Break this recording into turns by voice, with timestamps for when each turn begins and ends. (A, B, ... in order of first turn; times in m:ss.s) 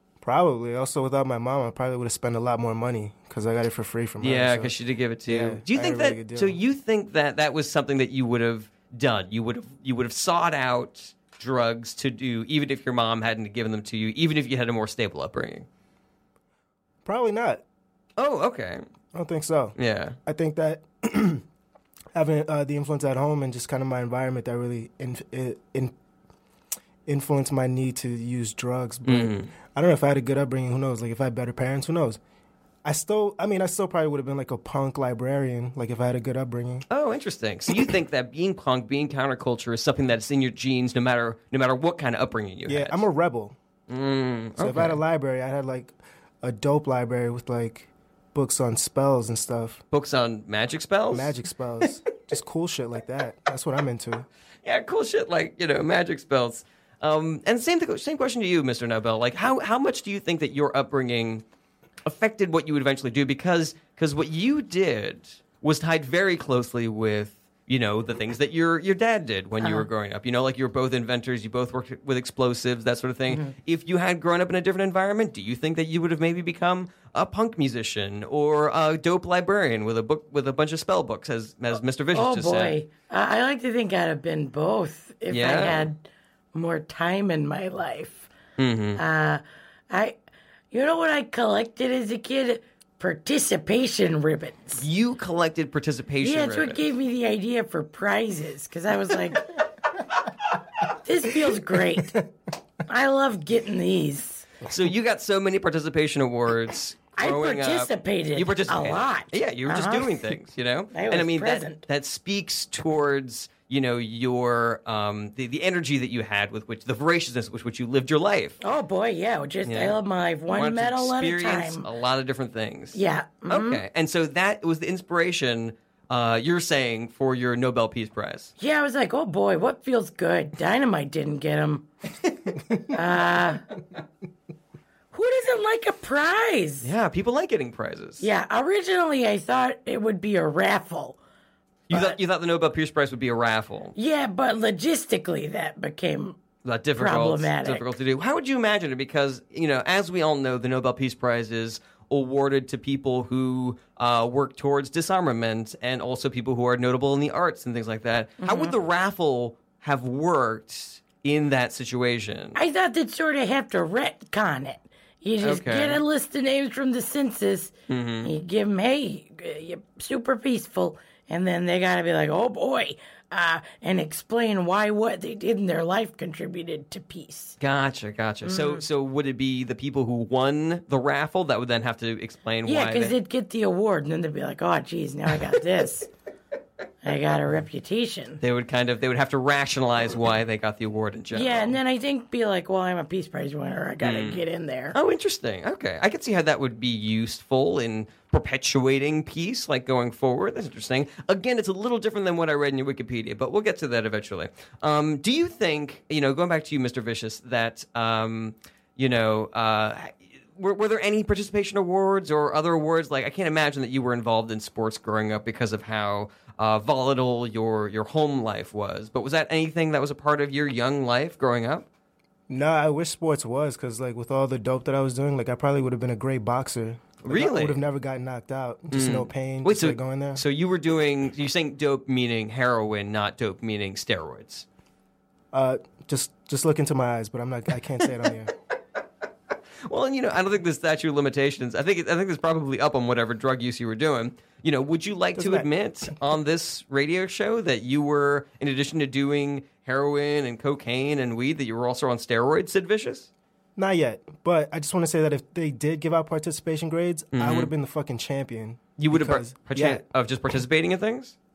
0:00.2-0:04.7 A
0:04.2-0:15.6 B
0:05.3-0:06.6 A
0:17.0-0:17.6 A
0:18.2-0:18.8 B
0:19.1-0:21.4 A
0:19.8-0:20.2 B
0:22.1-0:25.9 A
0:27.0-0:32.2 A
0:29.0-0:29.5 B
0:32.8-0:36.8 A
0:36.9-0:43.0 B
0:42.7-0:43.6 A
0:43.9-0:45.0 B
0:44.6-0:49.8 A
0:49.9-0:51.4 B
0:51.1-0:54.2 A
0:54.6-1:01.4 B
1:02.0-1:22.7 B
1:09.6-1:09.9 C
1:22.1-1:26.0 C
1:25.3-1:25.9 B
1:26.5-1:28.3 C
1:28.6-1:29.0 B
1:29.0-1:30.2 C
1:30.7-1:34.8 C
1:34.8-1:36.8 B
1:36.2-1:39.7 C
1:40.8-1:42.2 C
1:42.8-1:44.5 C
1:44.6-1:58.6 B
1:47.2-1:50.3 C
1:50.9-1:51.8 C
1:58.6-2:01.8 C
1:59.6-2:00.0 B
2:00.5-2:08.5 B
2:02.9-2:03.8 C
2:08.6-2:11.9 C
2:12.8-2:13.6 C
2:15.1-2:16.9 C
2:16.8-2:18.3 B
2:18.2-2:21.2 C
2:21.9-2:23.9 B
2:21.9-2:22.2 C
2:24.0-2:26.4 C
2:26.6-2:42.6 B
2:27.0-2:27.9 C
2:38.4-2:38.7 C
2:42.6-2:57.6 C
2:45.4-2:46.0 B
2:47.9-2:48.3 B
2:57.6-3:03.1 B
2:58.4-2:58.8 C
3:02.6-3:06.1 C
3:07.0-3:08.4 C
3:08.4-3:11.8 B
3:11.3-3:14.9 C
3:14.0-3:14.4 B
3:14.9-3:41.8 B
3:42.5-3:50.4 A
3:47.2-3:47.8 B
3:48.9-3:54.6 B
3:55.5-3:58.5 A
3:59.9-4:13.3 B
4:05.4-4:05.7 A
4:13.8-4:20.0 A
4:17.3-4:17.7 B
4:19.0-4:21.4 B